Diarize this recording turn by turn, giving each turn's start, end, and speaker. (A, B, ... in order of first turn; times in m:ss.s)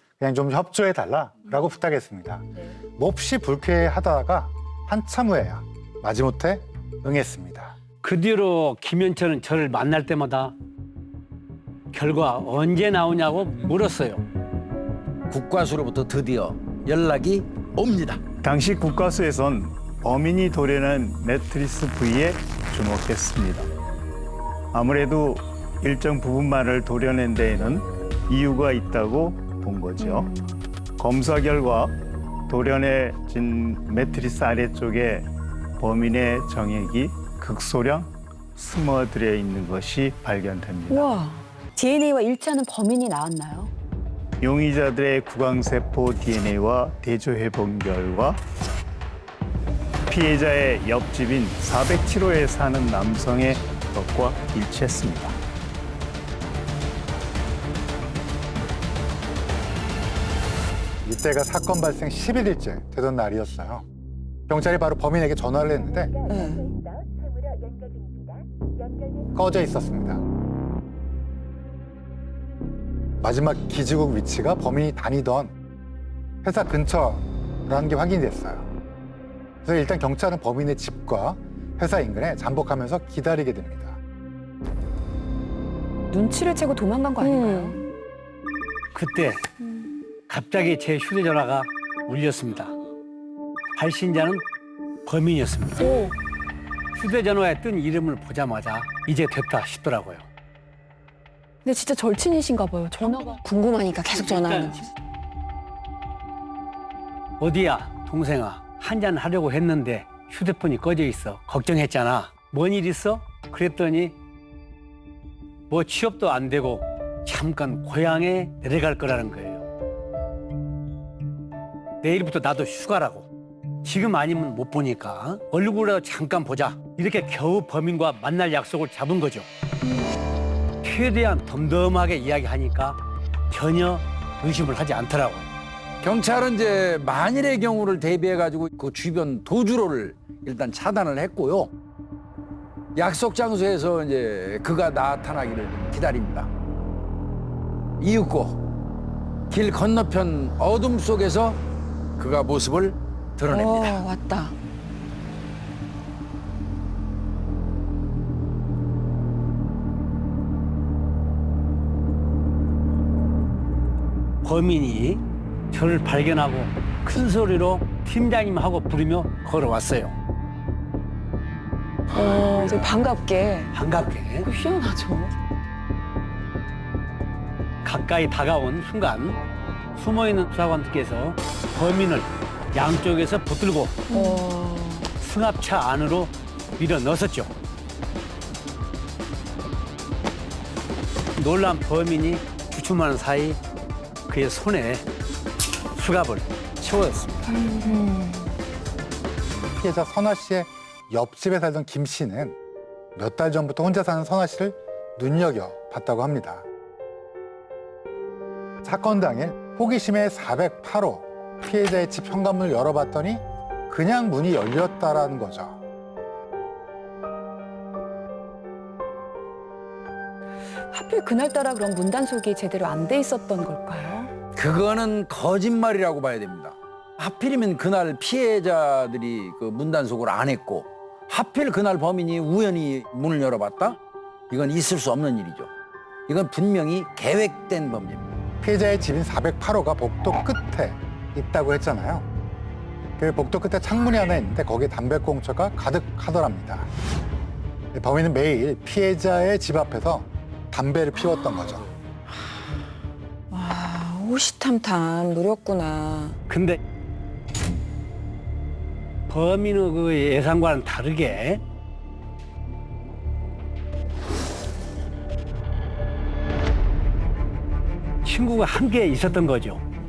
0:00.2-0:02.4 A
0:03.0-0:07.7 A
0:08.0-0:10.5 B
0:11.9-0:14.2 B
0:15.3-0:18.2 C
0:18.4-0:23.7 D
0:24.7-0:30.3 D
0:31.0-0:32.0 D
0:32.5-0:41.1 D
0:40.9-0:43.7 E
0:44.4-0:48.4 D
0:50.1-0:55.4 D
1:01.0-1:03.8 A
1:04.5-1:06.2 A
1:06.3-1:06.7 F
1:09.3-1:10.2 A
1:13.2-1:15.5 A
1:16.4-1:18.7 A
1:19.6-1:24.0 A
1:26.1-1:27.8 E
1:27.2-1:27.8 F
1:28.9-1:29.4 B
1:30.3-1:32.7 B
1:33.8-1:34.4 B
1:35.0-1:36.0 B
1:35.8-1:36.1 E
1:36.9-1:40.3 B
1:41.6-1:43.4 E
1:43.4-1:44.8 F
1:44.1-1:44.8 B
1:47.4-1:54.2 B
1:55.7-1:59.6 B
2:02.0-2:03.3 B
2:03.8-2:09.5 B
2:10.8-2:15.5 B
2:16.0-2:21.7 C
2:23.0-2:26.5 C
2:28.0-2:28.6 C
2:29.5-2:31.6 C
2:32.2-2:34.1 C
2:33.5-2:34.6 F
2:44.4-2:50.1 B
2:52.1-2:53.7 F
2:53.7-2:54.5 B
2:54.4-2:55.3 E
2:57.8-2:59.4 B
2:59.9-3:04.1 B
3:04.1-3:05.1 E
3:04.1-3:04.5 F
3:05.2-3:07.5 B
3:11.4-3:13.6 B
3:14.3-3:15.0 B
3:15.9-3:17.5 B
3:17.5-3:18.5 F
3:19.8-3:22.6 A
3:23.2-3:26.6 A
3:28.8-3:35.8 A
3:40.9-3:44.3 E
3:44.6-3:54.0 C
3:54.5-3:55.7 C
3:56.3-3:58.4 C
3:58.6-4:02.3 A
4:03.2-4:06.9 A
4:07.9-4:11.9 A
4:13.5-4:16.4 F
4:16.5-4:16.8 B
4:19.3-4:21.6 B
4:28.2-4:29.8 B